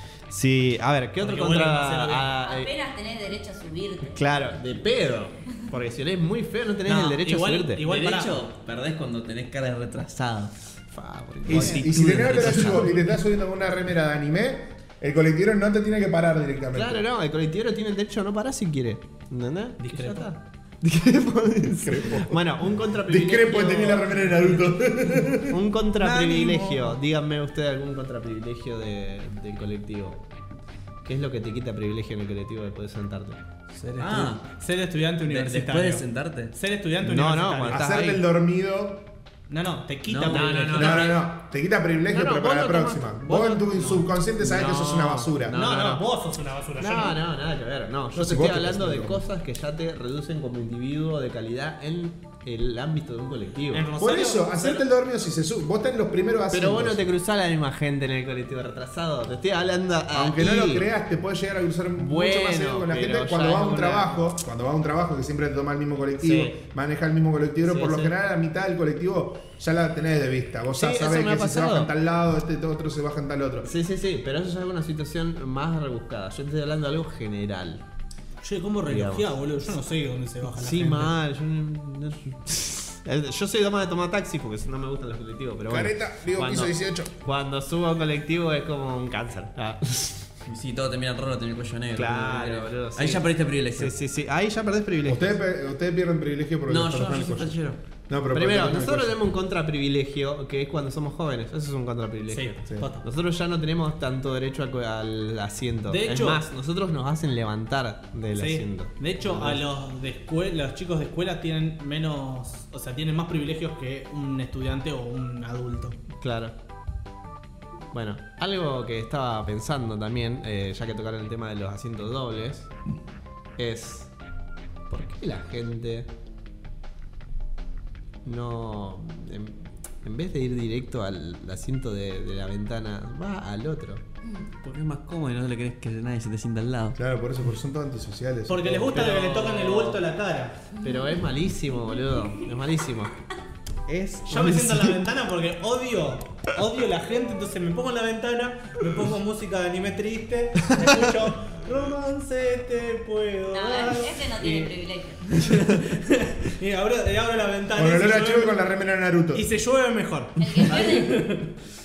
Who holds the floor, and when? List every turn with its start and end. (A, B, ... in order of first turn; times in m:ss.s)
0:00.3-0:02.7 A
0:01.2-0:02.3 B
0:02.4-0:04.2 C
0:04.2-0:07.8 A
0:06.8-0:08.4 B
0:07.8-0:10.5 D
0:10.9-0:12.9 A
0:11.5-0:17.0 E
0:11.5-0:11.9 B
0:11.9-0:12.8 D
0:16.7-0:24.3 A
0:19.8-0:20.3 B
0:21.8-0:25.6 E
0:25.5-0:30.2 A
0:26.0-0:27.0 B
0:31.0-0:33.4 A
0:33.7-0:38.0 B
0:34.0-0:34.4 D
0:35.3-0:36.6 D
0:37.0-0:38.2 A
0:37.7-0:39.1 E
0:39.5-0:41.1 B
0:40.1-0:41.0 D
0:40.3-0:41.2 A
0:40.7-0:45.6 E
0:42.1-0:46.0 A
0:45.5-0:47.2 B
0:46.8-0:53.9 A
0:48.1-0:49.2 E
0:53.7-0:54.8 B
0:54.0-0:57.0 E
0:56.5-1:00.8 A
1:00.1-1:13.7 E
1:02.0-1:04.2 A
1:06.2-1:06.6 A
1:07.6-1:08.1 A
1:10.8-1:11.9 A
1:13.6-1:17.8 A
1:18.4-1:21.1 B
1:18.9-1:19.4 A
1:20.5-1:30.3 A
1:25.7-1:27.1 E
1:30.4-1:34.0 D
1:32.0-1:35.3 A
1:35.0-1:37.6 E
1:36.7-1:37.8 D
1:38.1-1:39.3 E
1:38.3-1:49.6 A
1:42.3-1:43.1 B
1:45.9-1:46.4 B
1:48.3-1:56.0 B
1:56.2-1:56.5 A
1:57.9-2:02.7 A
2:03.6-2:04.1 A
2:04.9-2:06.1 A
2:08.2-2:14.0 A
2:14.6-2:17.0 D
2:17.0-2:19.1 E
2:18.5-2:20.6 B
2:19.0-2:20.0 D
2:20.8-2:21.1 C
2:20.8-2:23.2 A
2:23.9-2:25.0 A
2:24.2-2:34.7 B
2:33.5-2:35.4 C
2:35.4-2:38.6 B
2:37.8-2:39.5 E
2:39.3-2:41.4 B
2:40.4-2:41.3 C
2:40.7-2:41.4 D